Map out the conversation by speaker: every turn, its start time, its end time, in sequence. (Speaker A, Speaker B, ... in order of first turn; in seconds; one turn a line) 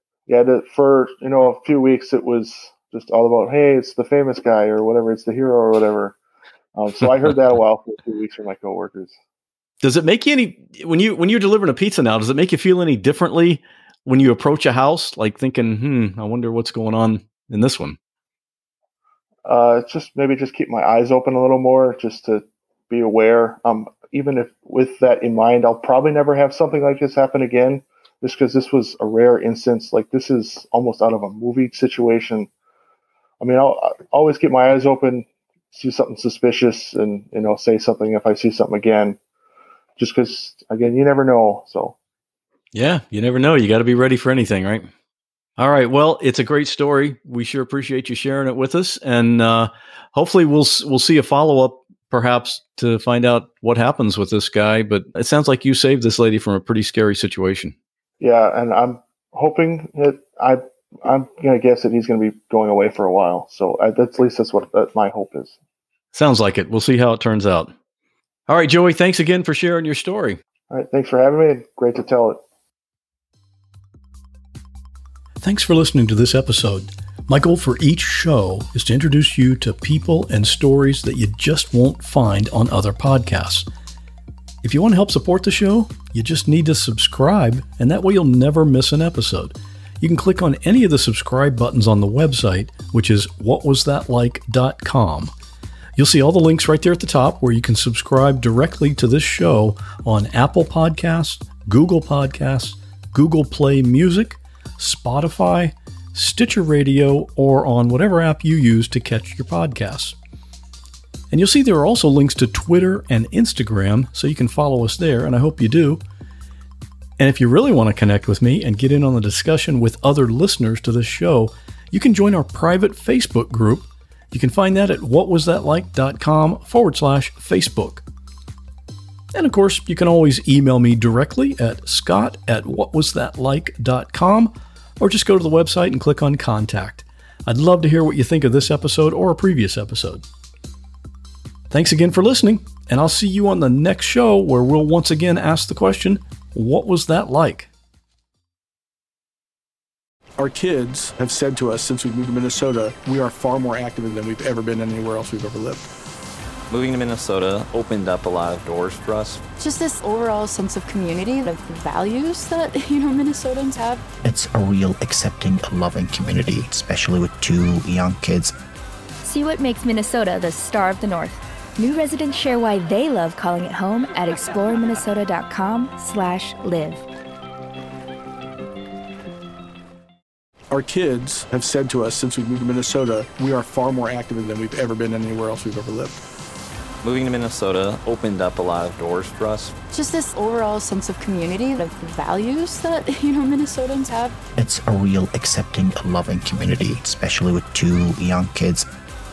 Speaker A: 0.3-6.2
Speaker A: 6.7-9.2
Speaker B: 9.8-18.0
Speaker A: 19.4-32.5
Speaker A: 33.4-39.2
Speaker A: 40.0-41.9
Speaker B: 42.7-44.9
Speaker B: 45.6-57.7
Speaker A: 58.2-65.6
Speaker B: 66.1-67.7
Speaker B: 68.5-70.4
Speaker A: 70.7-72.4
Speaker B: 75.4-83.7
Speaker B: 84.6-95.3
Speaker B: 96.0-110.2
Speaker B: 111.3-116.0
Speaker B: 117.2-128.0
Speaker B: 129.3-140.2
Speaker B: 141.7-147.7
Speaker C: 150.4-155.8
Speaker D: 156.7-159.4
Speaker E: 159.6-164.0
Speaker F: 164.2-168.5
Speaker G: 169.2-177.0
Speaker C: 180.7-186.2
Speaker D: 187.0-189.7
Speaker E: 189.9-194.3
Speaker F: 194.6-198.9